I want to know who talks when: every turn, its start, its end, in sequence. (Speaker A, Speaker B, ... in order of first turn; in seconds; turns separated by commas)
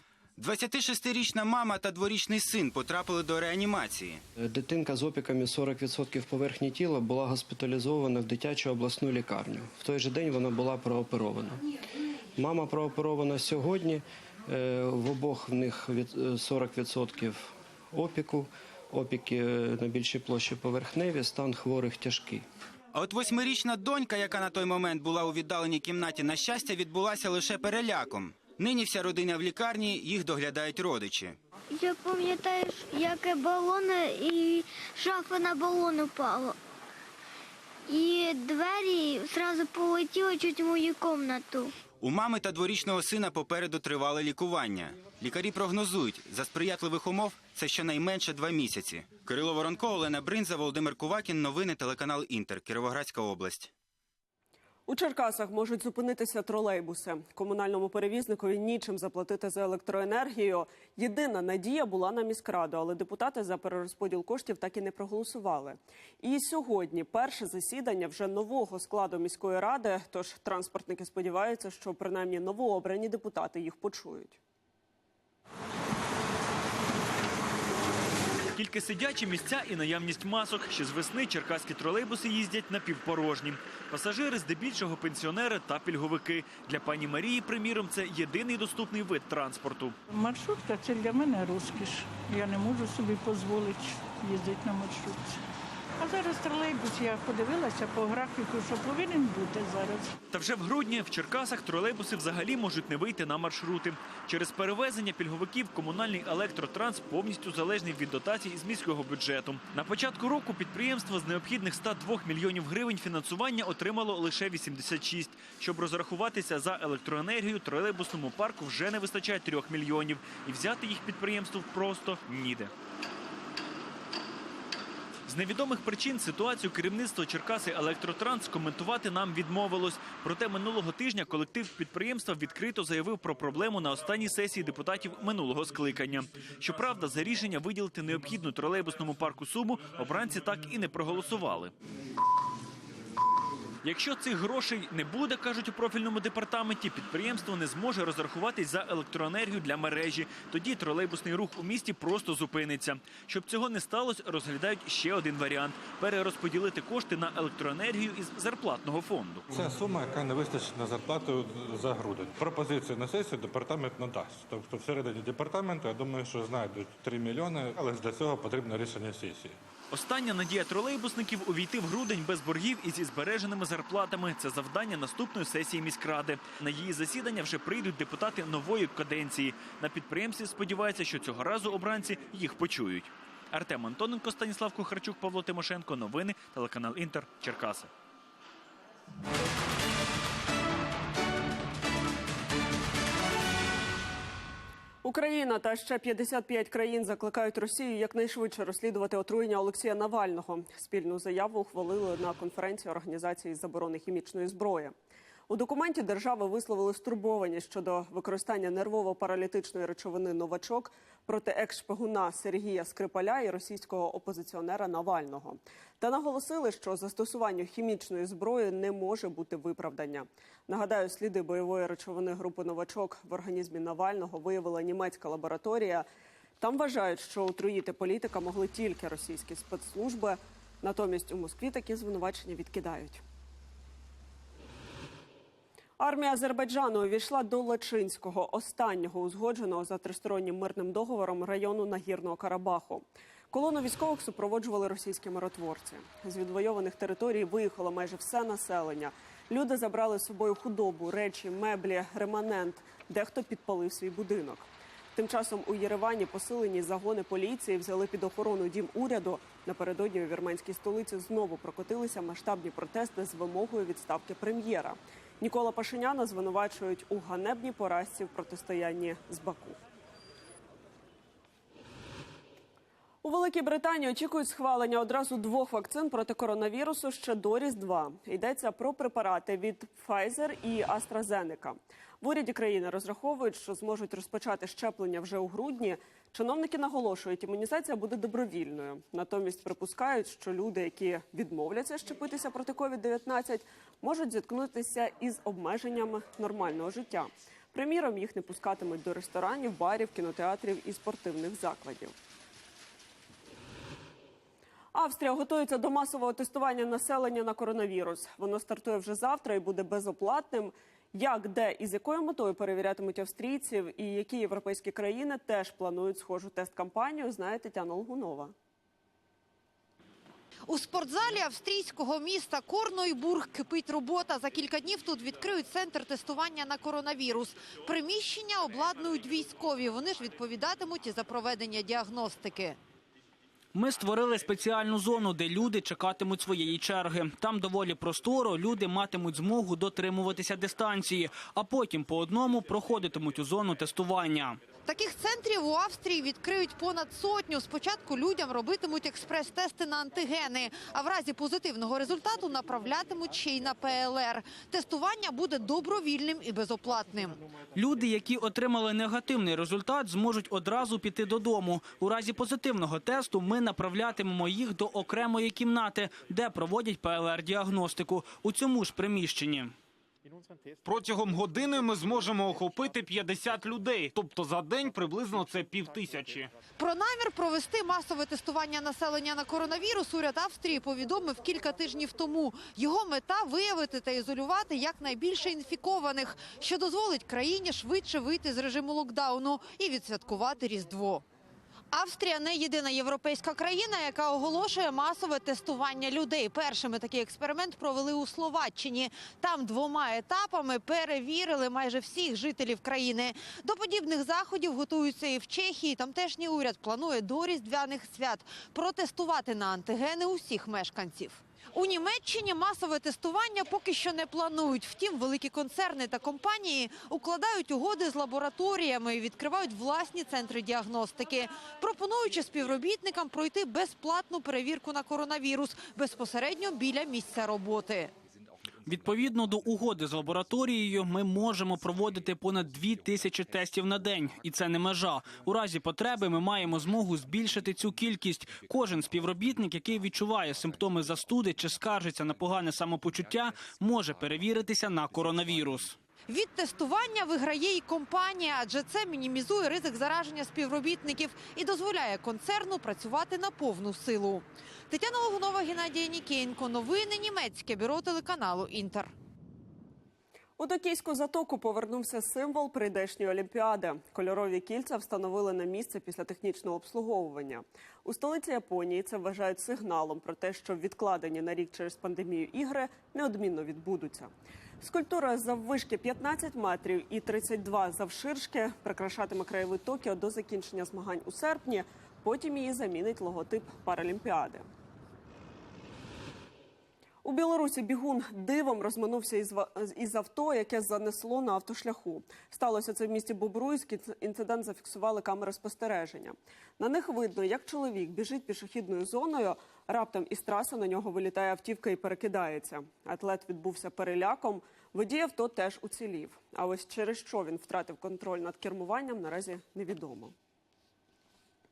Speaker A: 0.4-4.2, Speaker B: 4.4-11.6, Speaker B: 12.3-22.4, Speaker A: 22.9-31.4, Speaker C: 31.7-36.6, Speaker C: 37.9-41.7, Speaker A: 42.0-53.7, Speaker D: 54.9-74.4, Speaker E: 78.5-90.0, Speaker F: 90.1-95.4, Speaker F: 96.0-100.2, Speaker E: 100.3-122.7, Speaker E: 125.3-141.7, Speaker E: 143.8-159.5, Speaker G: 159.5-169.6, Speaker E: 169.9-187.9, Speaker D: 195.0-204.9, Speaker D: 205.5-226.1, Speaker D: 226.6-233.2, Speaker D: 236.0-269.8, Speaker D: 273.2-302.1, Speaker D: 304.9-318.5, Speaker H: 320.7-332.8, Speaker I: 333.7-344.6, Speaker H: 344.8-357.4, Speaker I: 357.8-369.7, Speaker J: 370.8-376.5, Speaker H: 376.8-391.2, Speaker H: 391.9-428.1, Speaker I: 428.9-445.9, Speaker H: 446.3-459.1, Speaker D: 460.6-484.7, Speaker D: 487.2-510.3